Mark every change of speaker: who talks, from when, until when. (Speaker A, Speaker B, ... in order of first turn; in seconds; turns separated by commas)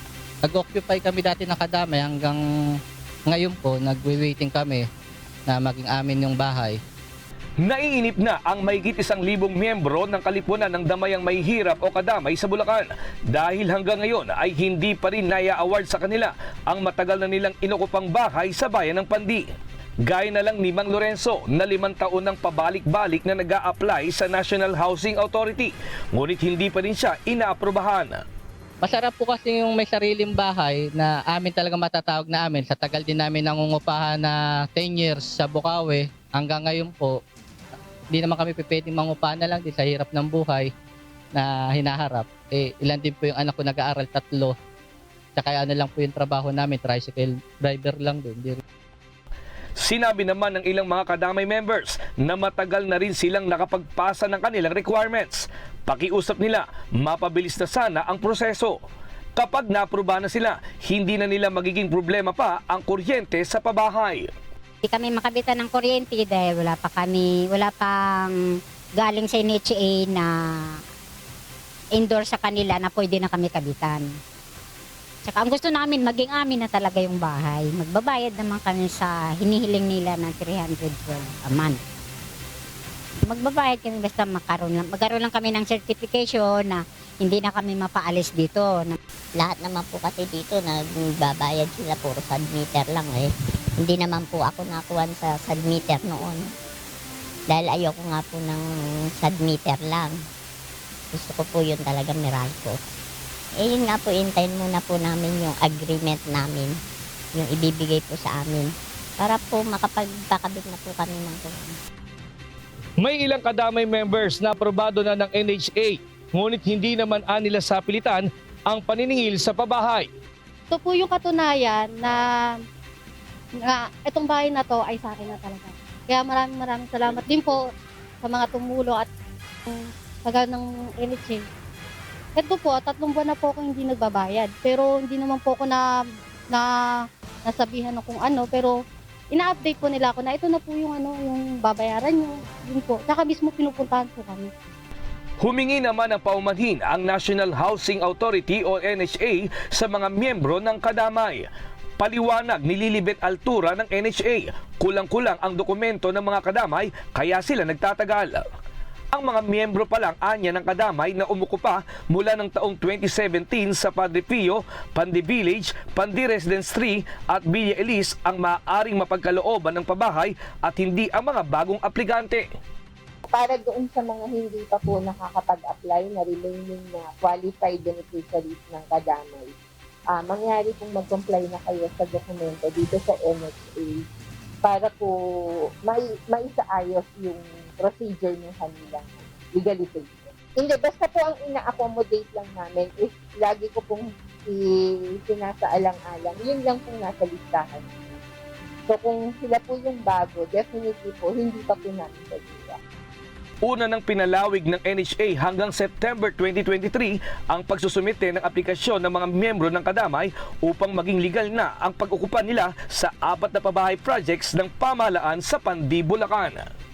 Speaker A: 0.4-2.4, Speaker A: 3.3-4.8, Speaker A: 5.5-6.8, Speaker B: 7.6-19.4, Speaker B: 20.1-28.2, Speaker A: 28.8-37.2, Speaker A: 38.1-40.7, Speaker A: 41.3-44.5, Speaker A: 45.4-48.6, Speaker B: 49.8-58.8, Speaker B: 59.4-64.2, Speaker C: 64.8-68.3, Speaker C: 69.0-70.3, Speaker C: 72.0-74.1, Speaker C: 75.2-81.8, Speaker C: 83.3-89.0, Speaker D: 89.4-93.3, Speaker D: 93.8-96.4, Speaker D: 97.5-98.6, Speaker D: 99.2-100.1, Speaker D: 101.1-102.8, Speaker D: 103.6-106.7, Speaker D: 107.3-111.7, Speaker B: 113.0-120.1, Speaker E: 120.7-122.2, Speaker E: 123.7-127.6, Speaker E: 128.2-129.1, Speaker E: 129.7-131.4, Speaker E: 132.3-135.8, Speaker E: 137.4-138.7, Speaker E: 139.3-144.5, Speaker B: 145.4-151.4, Speaker B: 152.0-158.4, Speaker B: 159.1-172.4, Speaker F: 173.3-179.5, Speaker F: 180.1-184.0, Speaker F: 184.6-185.1, Speaker F: 185.8-198.2, Speaker F: 198.9-202.8, Speaker B: 203.6-216.6